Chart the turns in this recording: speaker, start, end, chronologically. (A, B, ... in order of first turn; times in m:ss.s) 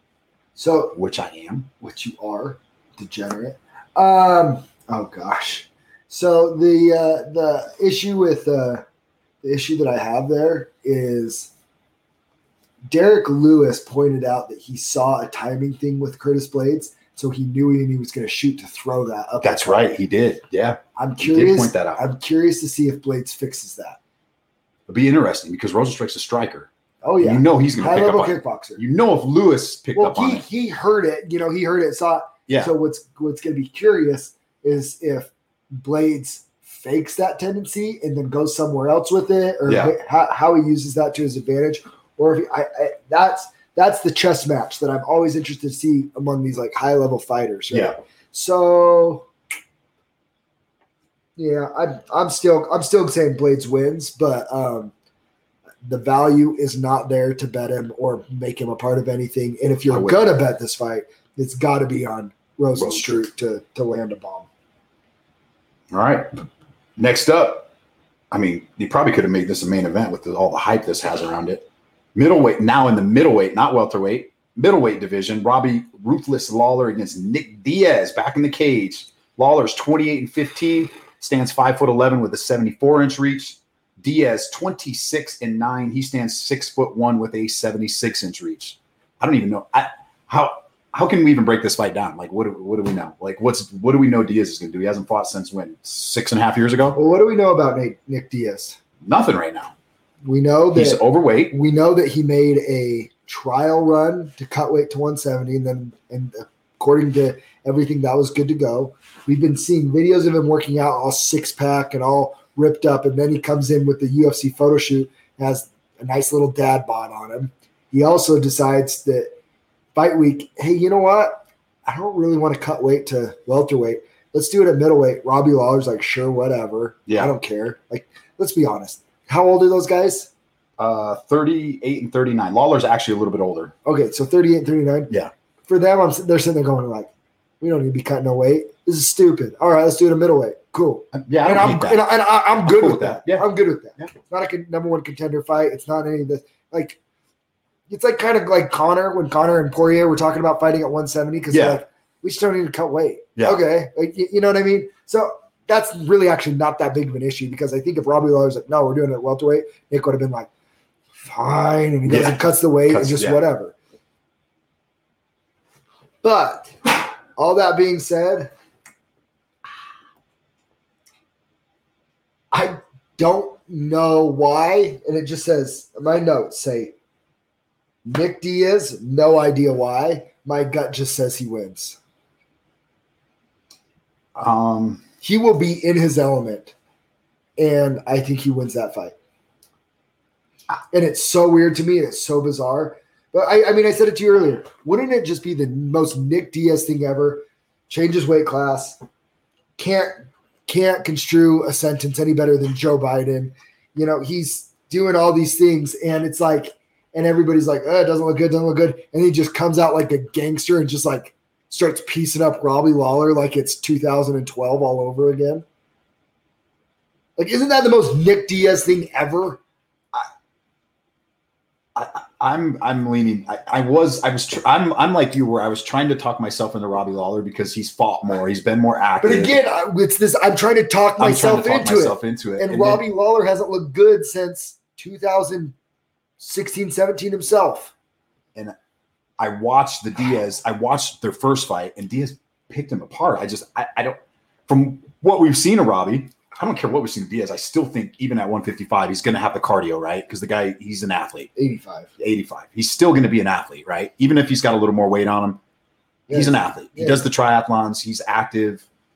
0:00.6-0:01.0 A
0:00.9-0:01.7 B
0:01.8-0:08.8 A
0:09.4-0:11.5 A
0:12.9-0:19.9 A
0:19.4-0:22.0 B
0:21.0-0:24.0 A
0:24.9-0:30.4 B
0:27.0-0:28.8 A
0:30.0-0:49.3 A
0:32.5-0:32.7 B
0:39.7-0:40.0 B
0:51.4-0:54.9 A
0:55.8-1:04.5 A
0:59.9-1:00.2 B
1:02.8-1:03.2 B
1:05.9-1:06.4 B
1:07.0-1:07.7 B
1:08.3-1:37.0 B
1:36.9-1:38.8 A
1:39.0-1:39.7 B
1:40.2-1:59.3 A
1:40.7-1:41.6 B
2:00.0-2:10.3 A
2:07.1-2:07.3 B
2:10.8-2:13.7 B
2:13.8-2:15.1 A
2:15.7-2:17.1 A
2:17.6-2:27.0 A
2:21.1-2:22.1 B
2:22.6-2:23.5 B
2:27.9-2:40.5 A
2:31.5-2:31.8 B
2:33.4-2:33.6 B
2:41.2-2:43.8 A
2:42.1-2:43.4 B
2:46.2-2:48.5 A
2:52.5-2:56.9 A
2:58.0-3:02.0 A
3:04.4-3:05.0 B
3:05.2-3:06.7 A
3:07.6-3:09.1 A
3:10.9-3:19.0 A
3:19.8-3:35.6 A
3:37.4-3:39.6 A
3:42.0-3:49.6 B
3:49.2-3:55.8 A
3:51.2-3:53.0 B
3:56.4-3:57.9 A
3:59.4-4:11.5 B
4:11.6-4:12.1 A
4:12.2-4:15.6 B
4:16.3-4:17.2 A
4:16.3-4:18.9 B